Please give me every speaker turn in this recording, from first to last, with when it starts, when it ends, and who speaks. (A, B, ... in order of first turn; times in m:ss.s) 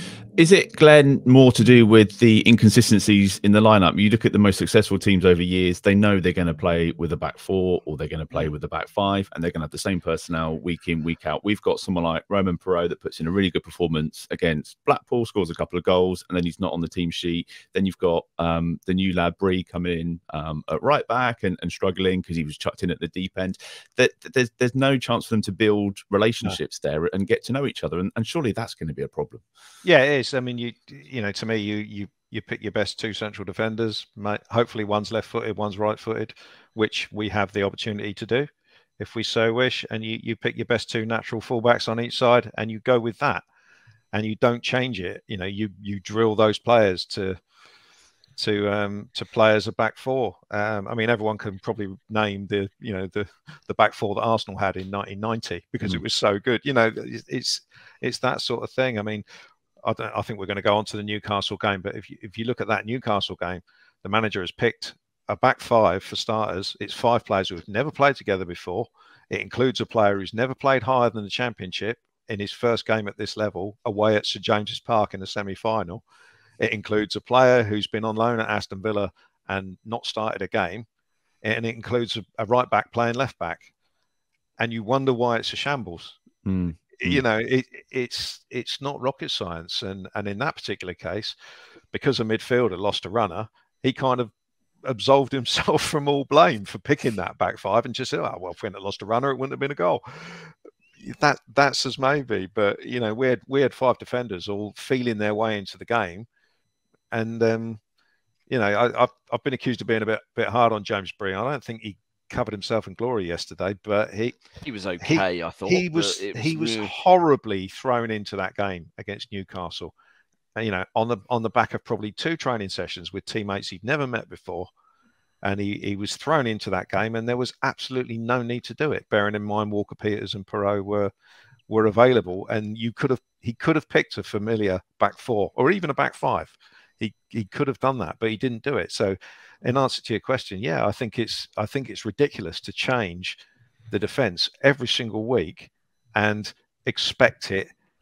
0:00.4-0:29.4 A
0:29.8-0:38.5 B
0:39.0-0:43.4 B
0:44.1-0:47.4 B
0:48.4-0:59.2 B
0:59.8-1:16.0 B
1:16.6-1:20.8 B
1:21.4-1:23.7 B
1:24.6-1:26.2 B
1:26.4-1:27.2 A
1:27.0-1:31.4 B
1:31.9-1:34.3 B
1:34.8-1:46.2 B
1:47.1-1:47.8 B
1:48.5-1:54.4 B
1:54.6-1:56.9 C
1:55.0-1:59.9 B
2:00.6-2:04.7 B
2:05.4-2:11.1 B
2:11.7-2:23.4 B
2:23.9-2:27.7 B